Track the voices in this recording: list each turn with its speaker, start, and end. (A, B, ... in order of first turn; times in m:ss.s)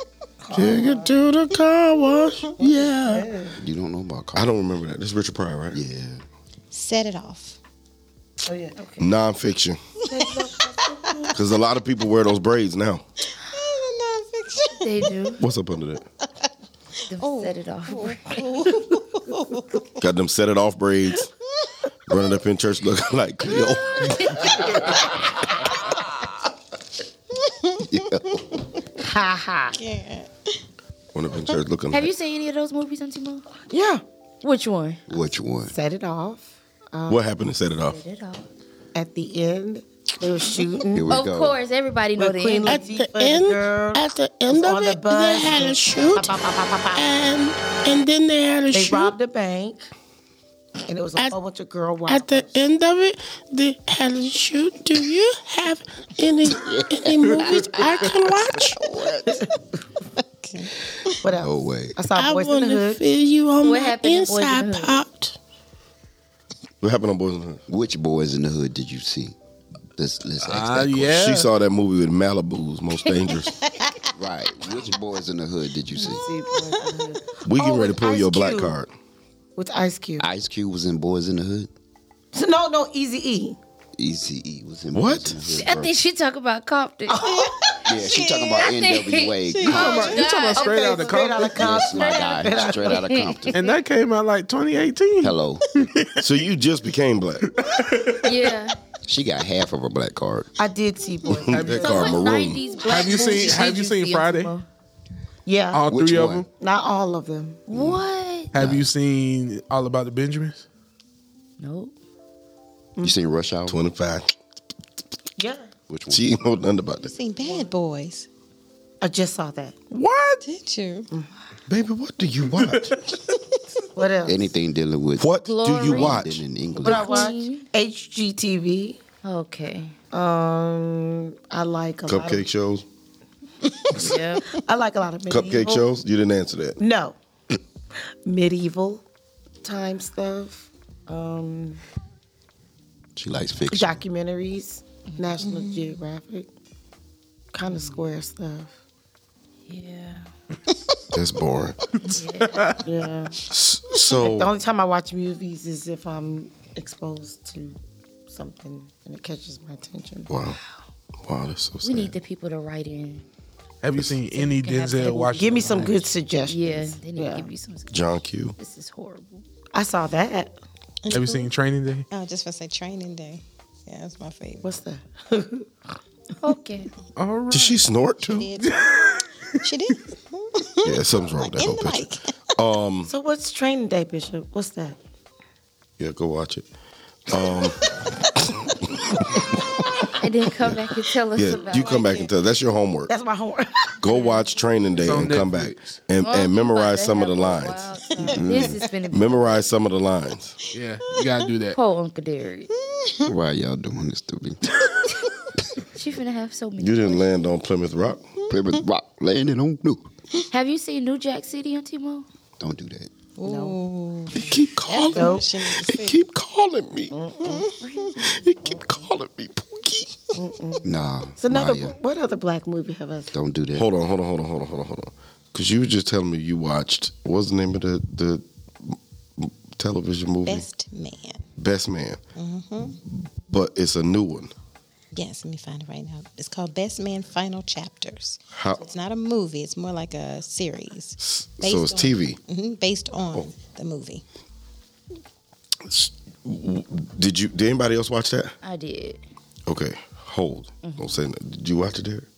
0:00.4-0:01.1 A
0:00.5-0:03.3 B
0:02.6-0:03.6 A
0:03.6-0:04.5 C
0:04.3-0:05.8 B
0:05.7-0:06.2 C
0:06.7-0:07.6 D
0:08.4-0:08.8 A
0:08.8-0:09.1 E
0:09.0-0:09.8 B
0:10.0-0:10.5 D
0:10.1-0:11.4 A
0:11.0-0:11.4 D
0:11.3-0:13.0 B
0:13.4-0:15.1 D
0:14.7-0:15.4 E
0:15.4-0:16.0 B
0:17.1-0:18.7 E
0:17.2-0:20.0 D
0:20.0-0:21.3 B
0:22.1-0:24.9 B
0:27.4-0:28.6 D
0:27.9-0:28.4 C
0:29.0-0:29.8 A
0:29.7-0:30.6 D
0:31.1-0:32.1 B
0:31.9-0:33.4 E
0:33.7-0:34.0 A
0:34.4-0:35.0 E
0:35.1-0:35.7 C
0:35.7-0:37.2 A
0:37.1-0:38.0 B
0:37.9-0:38.5 E
0:38.9-0:41.1 A
0:40.9-0:41.6 C
0:41.1-0:42.8 E
0:42.2-0:47.1 A
0:42.7-0:46.3 F
0:46.9-0:49.1 F
0:48.7-0:49.8 A
0:50.9-0:52.6 A
0:52.3-0:53.0 B
0:53.0-0:58.8 F
0:56.5-0:59.3 C
0:58.2-0:58.7 B
1:00.4-1:01.2 D
1:01.2-1:03.1 A
1:01.4-1:02.0 C
1:02.1-1:05.3 F
1:03.6-1:05.0 E
1:06.8-1:07.6 B
1:07.7-1:09.4 C
1:10.0-1:11.2 C
1:10.4-1:11.5 G
1:11.1-1:13.5 B
1:13.6-1:14.1 D
1:14.1-1:16.2 C
1:16.0-1:17.1 D
1:16.0-1:18.8 A
1:17.4-1:18.9 B
1:19.6-1:20.2 A
1:20.2-1:21.7 C
1:22.3-1:23.6 A
1:24.0-1:25.9 C
1:24.9-1:25.4 B
1:25.5-1:27.2 E
1:27.1-1:27.9 A
1:27.2-1:28.7 D
1:27.8-1:30.1 C
1:28.2-1:30.7 E
1:29.4-1:31.2 D
1:29.7-1:33.1 A
1:29.8-1:31.6 G
1:31.4-1:33.6 C
1:32.0-1:33.8 E
1:33.5-1:36.3 G
1:35.2-1:35.6 C
1:36.2-1:37.4 B
1:37.4-1:38.4 G
1:38.2-1:38.8 E
1:39.0-1:40.5 C
1:40.6-1:42.1 A
1:41.4-1:42.6 B
1:41.5-1:42.1 G
1:41.8-1:44.6 E
1:42.8-1:44.5 G
1:45.4-1:45.8 A
1:45.7-1:46.5 G
1:45.9-1:46.4 C
1:46.5-1:47.6 A
1:47.7-1:48.5 E
1:47.7-1:48.0 C
1:48.5-1:50.6 G
1:48.5-1:48.9 C
1:51.6-1:51.9 E
1:53.0-1:53.8 C
1:53.7-1:54.3 B
1:55.4-1:55.7 A
1:55.9-1:56.2 C
1:56.1-1:57.1 B
1:57.0-1:58.3 D
1:57.4-1:57.7 A
1:59.0-1:59.8 A
1:59.9-2:00.4 G
2:00.4-2:01.1 D
2:01.7-2:03.0 B
2:02.6-2:03.2 G
2:03.9-2:04.5 A
2:04.2-2:07.3 C
2:05.2-2:06.4 B
2:05.4-2:06.2 E
2:06.7-2:07.7 E
2:06.8-2:09.0 A
2:09.2-2:10.0 E
2:10.1-2:12.5 A
2:12.1-2:12.8 B
2:13.9-2:14.5 E
2:14.5-2:15.8 A
2:15.3-2:16.8 B
2:16.8-2:17.1 A
2:18.0-2:19.0 A
2:19.6-2:21.8 A
2:23.2-2:24.0 C
2:23.7-2:26.5 A
2:25.4-2:26.0 D
2:27.5-2:28.7 A
2:27.7-2:28.0 E
2:29.7-2:30.3 E
2:31.1-2:31.8 B
2:31.9-2:32.8 G
2:32.1-2:32.7 E
2:32.8-2:33.4 A
2:33.5-2:34.5 B
2:34.0-2:40.3 A
2:40.3-2:40.6 B
2:41.2-2:42.1 B
2:41.8-2:43.2 E
2:43.8-2:46.1 G
2:44.3-2:49.4 E
2:45.3-2:47.5 A
2:47.9-2:48.5 B
2:49.7-2:50.5 A
2:51.0-2:51.5 D
2:51.1-2:52.1 G
2:52.1-2:54.7 D
2:54.6-2:55.7 A
2:56.4-2:56.9 E
2:57.2-2:57.8 G
2:57.5-2:58.5 B
2:58.2-2:58.8 D
2:58.6-2:59.6 G
2:59.6-3:02.2 D
3:00.8-3:03.1 B
3:03.0-3:05.0 A
3:06.0-3:06.6 B
3:07.3-3:07.9 B
3:08.4-3:09.4 B
3:10.2-3:12.3 E
3:11.3-3:13.1 B
3:11.4-3:12.3 D
3:13.1-3:14.0 A
3:14.0-3:17.9 B
3:14.1-3:14.4 E
3:15.0-3:16.0 G
3:16.2-3:19.6 E
3:18.1-3:18.9 D
3:18.3-3:18.8 C
3:19.1-3:20.6 B
3:20.7-3:21.8 G
3:21.2-3:21.5 D
3:21.7-3:22.7 E
3:22.8-3:23.3 D
3:23.2-3:24.6 C
3:25.9-3:27.3 E
3:26.8-3:28.3 B
3:28.5-3:28.8 D
3:28.5-3:30.1 C
3:30.5-3:32.2 E
3:32.6-3:33.1 C
3:33.4-3:36.2 D
3:33.4-3:33.8 A
3:34.3-3:37.1 B
3:35.1-3:35.5 A
3:37.1-3:37.7 A
3:37.4-3:38.1 D
3:37.8-3:38.2 E
3:38.2-3:40.2 B
3:38.6-3:39.0 A
3:40.3-3:43.3 A
3:40.8-3:42.0 C
3:43.3-3:43.9 C
3:43.7-3:50.6 B
3:50.4-3:51.4 D
3:51.6-3:52.2 B
3:52.3-3:53.0 D
3:53.5-3:54.5 B
3:55.1-4:04.2 D
3:58.5-3:58.8 B
4:01.2-4:02.4 B
4:05.8-4:08.5 B
4:08.6-4:09.2 E
4:09.7-4:12.3 B
4:10.8-4:11.1 E